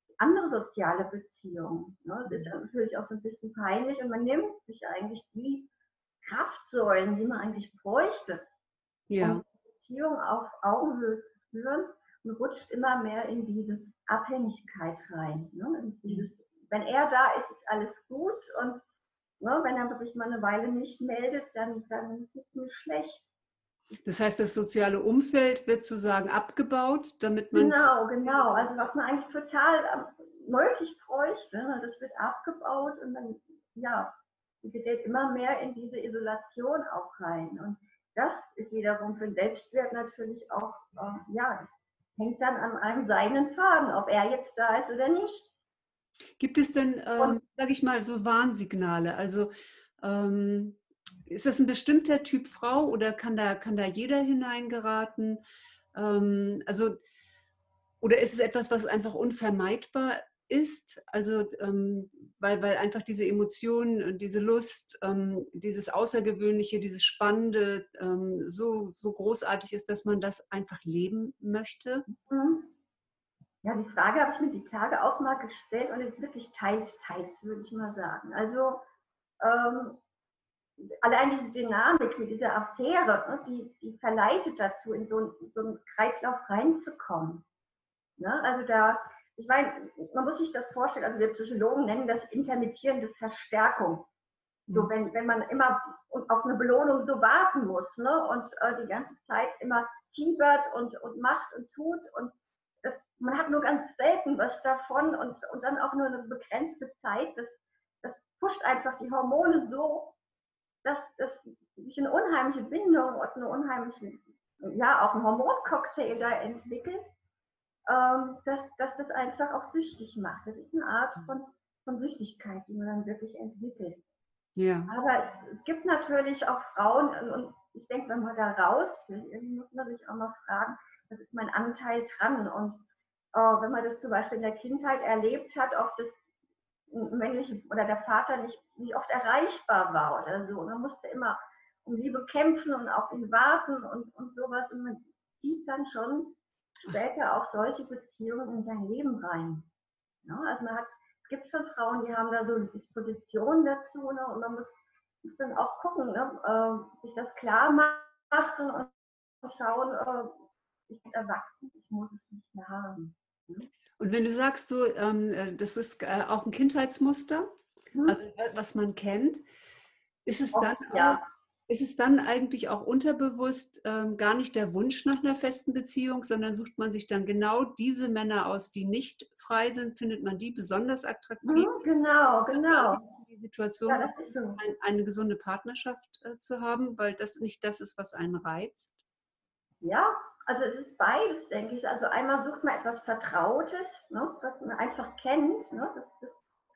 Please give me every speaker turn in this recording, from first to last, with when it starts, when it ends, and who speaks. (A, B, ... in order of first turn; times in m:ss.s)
0:00.2-0:05.7 A
0:02.3-0:02.5 B
0:06.2-0:08.4 A
0:09.1-0:09.4 B
0:09.2-0:18.8 A
0:19.4-0:23.3 A
0:24.0-0:28.9 B
0:27.5-0:45.5 A
0:46.4-0:55.4 B
0:55.9-0:56.9 B
0:58.0-1:12.0 B
1:12.1-1:12.7 A
1:13.6-1:18.8 A
1:19.4-1:20.0 A
1:20.8-1:27.4 A
1:28.2-1:34.0 A
1:34.7-1:50.1 A
1:50.8-1:57.1 A
1:57.9-2:04.0 A
2:04.6-2:04.9 B
2:04.9-2:16.2 A
2:16.9-2:29.7 A
2:30.2-2:43.7 A
2:44.0-2:47.5 B
2:48.0-2:49.4 B
2:50.2-3:01.8 B
2:50.5-2:51.2 A
3:01.4-3:03.0 A
3:02.5-3:09.0 B
3:03.9-3:04.6 A
3:09.8-3:16.4 A